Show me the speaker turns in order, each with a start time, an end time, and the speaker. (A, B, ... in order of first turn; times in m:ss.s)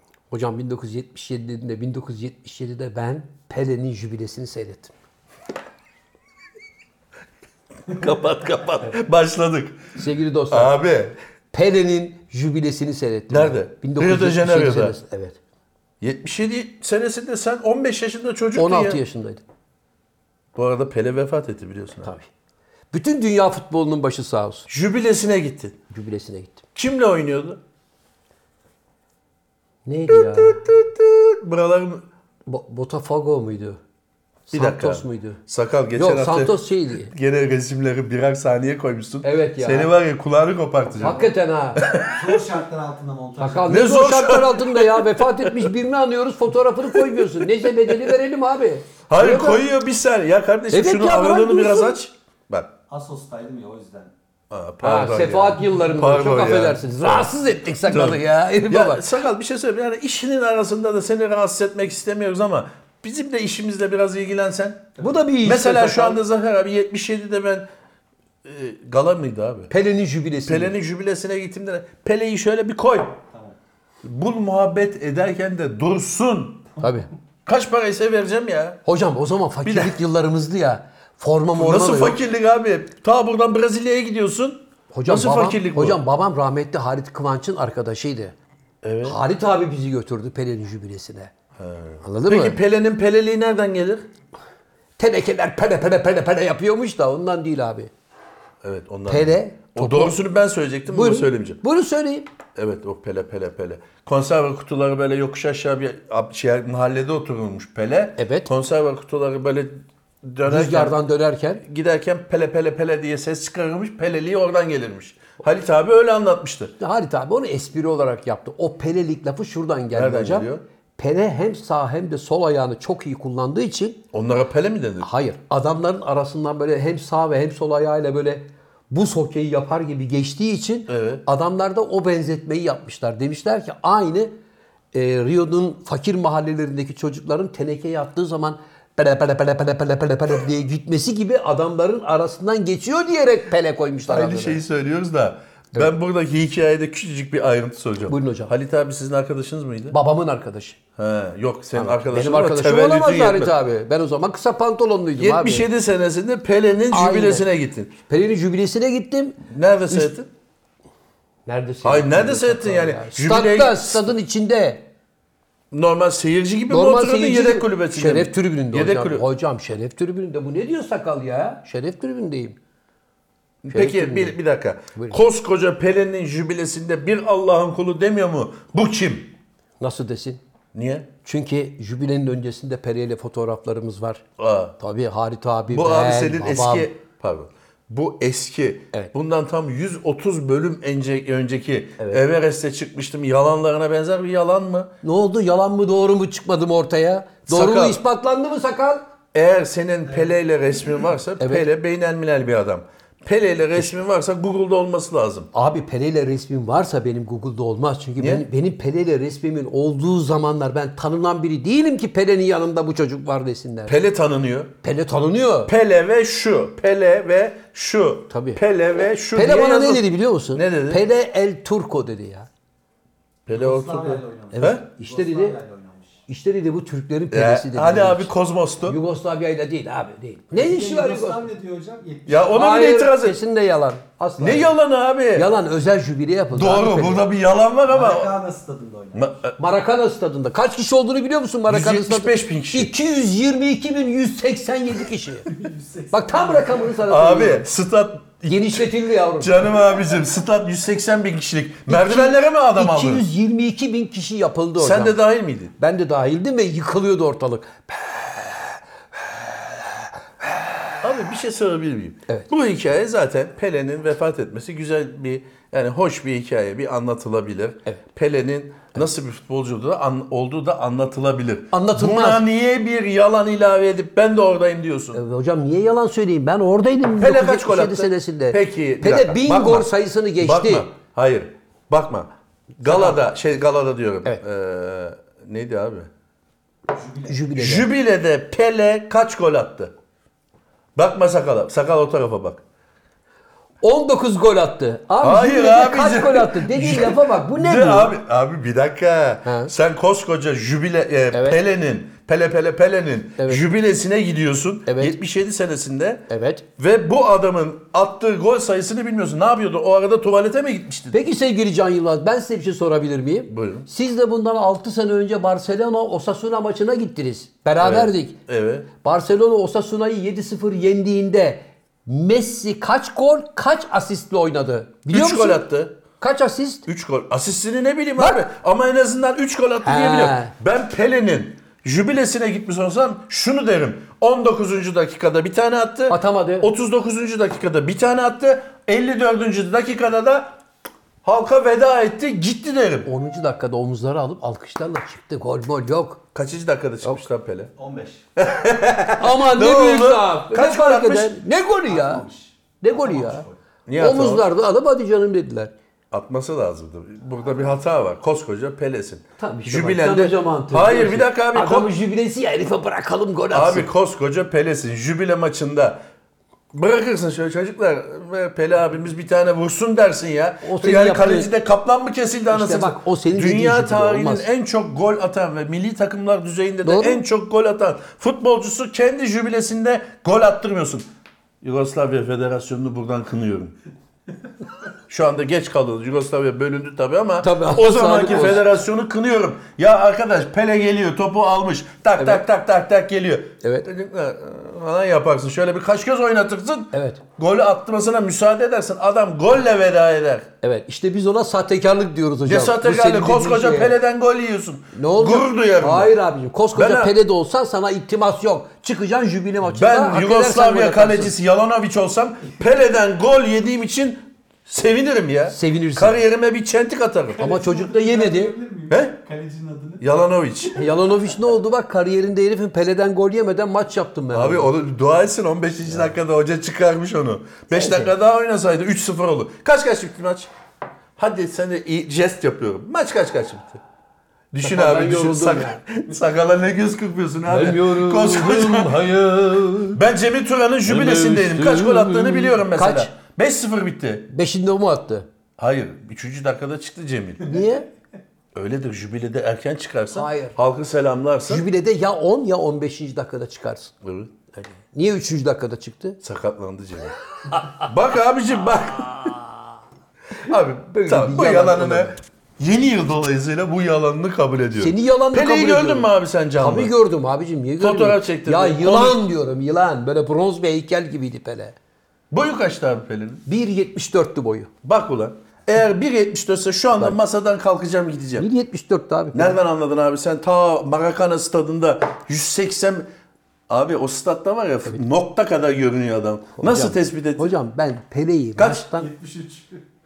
0:00.3-0:04.9 A
0:07.9-0:10.0 B
0:10.0-0:10.8 A
0:10.5-0:11.2 B
0:11.5-0:15.4 A
0:13.3-0:15.0 B
0:16.0-0:19.0 B
0:18.6-0:19.4 A
0:20.6-0:22.1 B
0:22.0-0:22.3 A
0:22.9-0:24.7 A
0:24.7-0:25.8 B
0:25.9-0:26.6 A
0:26.8-0:27.6 B
0:29.9-0:30.6 A
0:30.1-0:32.1 B
0:32.5-0:33.8 A
0:34.5-0:35.4 A
0:34.5-0:36.6 B
0:36.0-0:37.1 A
0:37.1-0:42.4 B
0:39.2-0:39.9 A
0:41.0-0:41.9 A
0:42.0-0:43.8 C
0:43.4-0:49.7 A
0:43.7-0:45.7 B
0:46.9-0:48.2 B
0:49.1-0:52.7 B
0:50.7-0:52.0 A
0:52.9-0:54.1 C
0:54.5-1:07.7 B
0:54.8-0:59.1 A
1:05.0-1:06.2 A
1:08.4-1:09.7 B
1:09.7-1:10.8 A
1:10.4-1:13.2 B
1:14.0-1:16.7 B
1:16.8-1:17.1 A
1:17.5-1:18.8 B
1:18.9-1:22.2 A
1:19.6-1:20.0 B
1:21.6-1:26.0 B
1:24.9-1:28.4 A
1:28.8-1:29.2 B
1:29.0-1:31.3 A
1:31.6-1:34.1 B
1:32.0-1:32.6 A
1:35.0-1:37.9 A
1:38.6-1:41.6 B
1:39.1-1:40.2 A
1:40.9-1:42.3 A
1:42.6-1:51.0 B
1:48.2-1:48.5 A
1:50.4-1:51.6 A
1:51.6-1:56.7 B
1:56.8-2:04.0 A
1:59.9-2:00.6 B
2:04.1-2:05.1 B
2:05.0-2:14.3 A
2:10.9-2:11.2 B
2:14.9-2:24.6 A
2:24.1-2:30.0 B
2:28.1-2:28.5 A
2:29.9-2:30.8 A
2:31.0-2:33.5 B
2:31.8-2:35.7 A
2:35.2-2:38.0 B
2:36.9-2:37.5 A
2:38.1-2:40.1 A
2:39.5-2:40.3 B
2:41.5-2:44.9 A
2:41.8-2:44.1 B
2:45.7-2:49.2 B
2:46.7-2:52.6 A
2:53.6-2:59.3 B
2:53.7-2:54.4 A
2:55.0-2:55.2 A
2:59.8-3:00.4 A
3:00.7-3:01.1 B
3:01.2-3:04.2 A
3:04.4-3:04.8 B
3:04.8-3:06.9 A
3:05.7-3:14.9 B
3:15.0-3:19.0 A
3:17.5-3:18.0 B
3:19.3-3:25.5 B
3:25.5-3:34.0 A
3:28.2-3:28.4 B
3:33.9-3:34.7 B
3:34.8-3:35.7 A
3:35.7-3:41.0 B
3:38.3-3:38.6 A
3:39.3-3:42.5 A
3:43.5-3:44.8 B
3:43.5-3:46.2 C
3:44.5-3:45.6 A
3:46.3-3:48.3 A
3:47.3-3:49.0 B
3:48.8-3:51.4 A
3:50.5-3:52.5 C
3:52.3-3:53.4 B
3:52.5-3:54.8 A
3:54.4-3:55.5 B
3:55.3-3:57.2 A
3:56.5-3:58.3 B
3:57.9-3:59.2 C
3:59.1-3:59.6 B
3:59.6-4:05.5 A
4:01.7-4:02.9 B
4:05.5-4:07.0 C
4:06.1-4:07.7 A
4:07.1-4:13.2 B
4:08.5-4:09.6 A
4:11.9-4:15.2 A
4:14.8-4:15.7 B
4:15.8-4:20.6 A
4:21.0-4:35.2 B
4:31.7-4:32.4 A
4:35.1-4:40.9 A
4:37.2-4:46.1 B
4:42.8-4:43.2 A
4:46.9-4:47.4 C
4:47.3-4:47.9 A
4:47.6-4:49.9 B
4:51.0-4:52.6 B
4:53.8-4:58.1 A
4:55.2-5:11.2 B
4:59.4-4:59.7 A
5:01.3-5:01.6 A
5:03.4-5:03.6 A
5:04.9-5:05.2 A
5:06.3-5:06.6 A
5:11.1-5:18.4 A
5:13.5-5:13.9 B
5:17.8-5:18.9 B
5:19.0-5:25.6 A
5:25.1-5:26.0 B
5:26.2-5:26.8 A
5:26.9-5:40.5 B
5:28.2-5:28.4 A
5:29.8-5:30.5 A
5:36.1-5:36.7 A
5:41.2-5:43.1 B
5:43.1-5:46.2 A
5:46.3-5:47.7 B
5:47.8-5:48.2 C
5:48.4-5:51.4 B
5:49.2-5:52.2 A
5:51.9-5:53.6 C
5:52.8-5:53.4 A
5:53.9-5:54.5 B
5:54.0-5:55.7 A
5:56.1-6:01.9 B
5:59.4-6:03.9 A
6:03.5-6:06.0 B
6:06.7-6:21.1 B
6:10.6-6:11.5 A
6:12.5-6:14.5 A
6:16.8-6:17.2 A
6:21.6-6:23.8 B
6:25.1-6:40.5 B
6:27.4-6:28.8 A
6:32.2-6:32.4 A
6:33.6-6:33.9 A
6:36.9-6:37.2 A
6:40.6-6:44.0 A
6:42.4-6:46.1 B
6:44.9-6:51.3 A
6:46.8-6:47.2 B
6:49.6-6:57.5 B
6:55.5-6:56.2 A
6:57.4-7:00.0 C
6:57.4-6:58.5 A
6:58.9-6:59.2 B
7:00.0-7:00.8 B
7:00.8-7:04.7 A
7:04.3-7:10.5 B
7:07.7-7:08.1 A
7:11.2-7:13.8 B
7:14.5-7:19.1 B
7:14.6-7:15.8 A
7:17.5-7:20.0 A
7:19.9-7:24.3 B
7:20.8-7:23.1 A
7:24.3-7:25.3 A
7:25.6-7:27.6 B
7:27.4-7:27.9 A
7:28.5-7:31.6 B
7:30.1-7:30.6 A
7:31.5-7:33.9 A
7:34.0-7:34.3 B
7:34.5-7:36.2 A
7:36.2-7:39.4 B
7:37.5-7:37.8 A
7:40.5-7:46.9 B
7:40.5-7:42.2 A
7:44.8-7:51.8 A
7:47.8-7:49.3 B
7:52.3-7:53.4 B
7:53.5-7:54.7 A
7:54.8-7:58.5 B
7:58.4-7:59.6 A
7:59.3-8:03.1 B
8:03.7-8:07.5 B
8:06.6-8:09.1 A
8:08.6-8:08.9 B
8:08.8-8:09.8 C